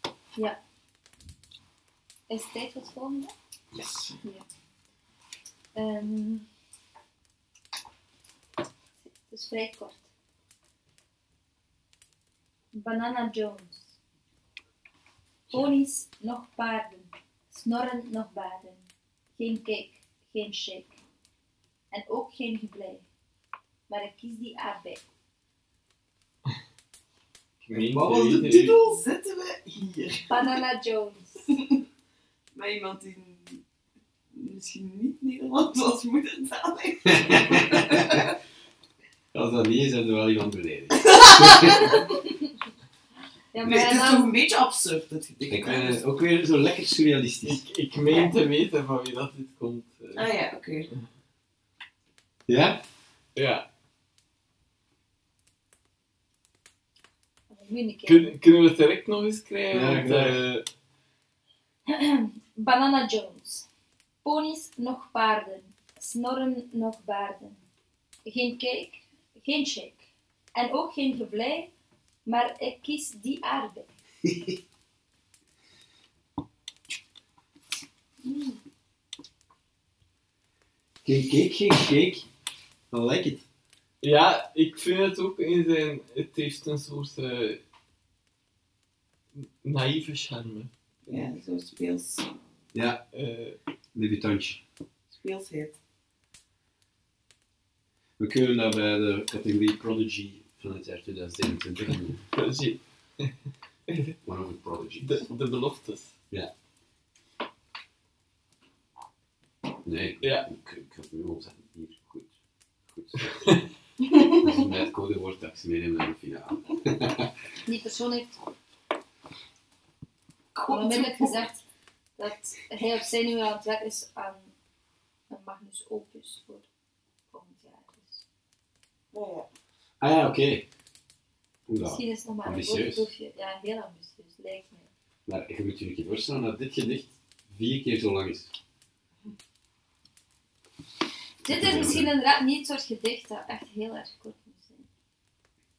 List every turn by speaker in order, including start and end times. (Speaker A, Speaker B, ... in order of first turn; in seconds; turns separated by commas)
Speaker A: 2.3-3.3, Speaker B: 3.7-4.1, Speaker A: 5.7-6.5, Speaker A: 9.0-10.0, Speaker A: 12.7-13.9, Speaker A: 15.5-20.9, Speaker A: 21.9-23.0, Speaker A: 23.9-25.0, Speaker C: 27.6-28.9, Speaker B: 27.8-28.1, Speaker D: 27.9-30.6, Speaker A: 30.3-31.5, Speaker D: 31.5-31.8, Speaker D: 32.5-33.6, Speaker D: 34.3-38.2, Speaker B: 37.2-38.2, Speaker B: 39.3-42.0, Speaker D: 41.1-41.7, Speaker A: 41.6-42.2, Speaker A: 43.5-44.3, Speaker D: 43.6-46.0, Speaker B: 45.5-47.6, Speaker C: 47.4-50.3, Speaker D: 50.1-50.9, Speaker B: 52.5-52.8, Speaker C: 53.3-53.6, Speaker A: 57.5-58.3, Speaker C: 58.0-60.6, Speaker B: 59.7-60.4, Speaker A: 61.9-63.7, Speaker A: 64.2-67.6, Speaker A: 68.2-71.7, Speaker A: 72.2-73.9, Speaker B: 74.2-74.5, Speaker B: 81.0-82.2, Speaker B: 82.9-83.4, Speaker C: 84.0-87.6, Speaker C: 89.3-90.7, Speaker D: 91.0-92.3, Speaker B: 92.7-93.0, Speaker C: 93.1-93.6, Speaker B: 93.9-94.6, Speaker D: 95.1-95.8, Speaker B: 98.2-102.2, Speaker C: 102.3-103.3, Speaker C: 103.9-104.1, Speaker B: 104.2-105.2, Speaker C: 105.0-106.1, Speaker B: 109.8-112.3, Speaker C: 110.2-110.5, Speaker B: 112.9-113.6, Speaker B: 114.4-117.3, Speaker A: 117.7-118.4, Speaker D: 120.5-121.5, Speaker A: 120.7-121.6, Speaker A: 122.2-124.5, Speaker A: 125.3-126.7, Speaker A: 127.3-128.2, Speaker D: 129.1-129.5, Speaker B: 130.0-130.6, Speaker B: 131.7-133.1, Speaker A: 131.8-134.9, Speaker B: 135.2-138.5, Speaker A: 141.4-144.8, Speaker B: 141.5-142.1